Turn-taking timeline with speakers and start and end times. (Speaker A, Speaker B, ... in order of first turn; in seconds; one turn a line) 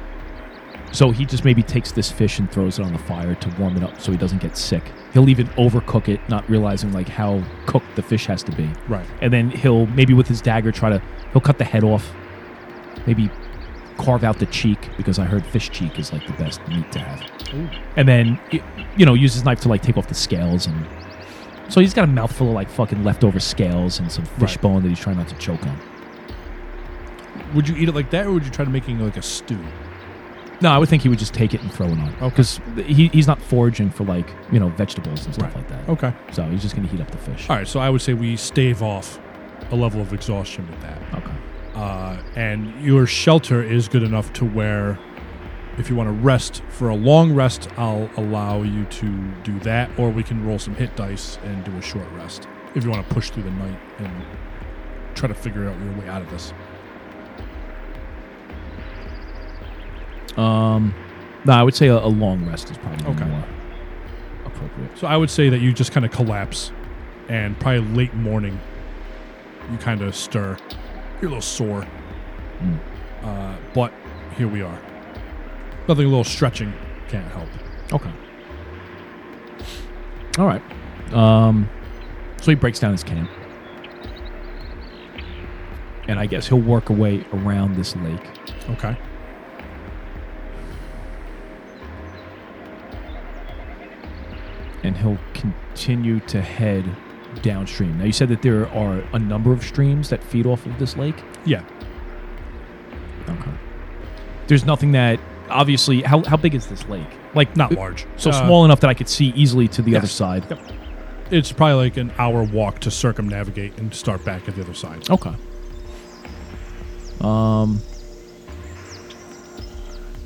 Speaker A: 0.9-12.2
Speaker A: 13.0-13.3
Speaker A: 14.0-17.2
Speaker B: 17.5-17.8
Speaker A: 17.9-20.9
Speaker A: 21.7-25.8
Speaker B: 27.3-29.8
Speaker A: 30.6-37.5
Speaker B: 32.2-32.5
Speaker B: 35.4-36.1
Speaker B: 37.5-41.0
Speaker A: 41.1-41.4
Speaker B: 41.7-45.0
Speaker B: 45.8-54.3
Speaker B: 55.1-56.5
Speaker A: 60.4-63.5
Speaker B: 63.0-63.3
Speaker A: 64.5-64.9
Speaker B: 64.9-66.7
Speaker B: 67.3-68.6
Speaker B: 69.7-70.6
Speaker B: 71.2-71.9
Speaker B: 73.2-74.8
Speaker B: 75.8-77.6
Speaker A: 77.9-78.2
Speaker A: 80.3-81.7
Speaker A: 82.4-83.3
Speaker A: 86.1-88.3
Speaker B: 88.7-89.0
Speaker A: 94.8-101.2
Speaker A: 103.3-103.5
Speaker A: 104.5-110.5
Speaker B: 107.5-108.6
Speaker B: 109.9-110.6
Speaker B: 111.3-115.1
Speaker A: 115.1-115.4
Speaker A: 117.2-117.8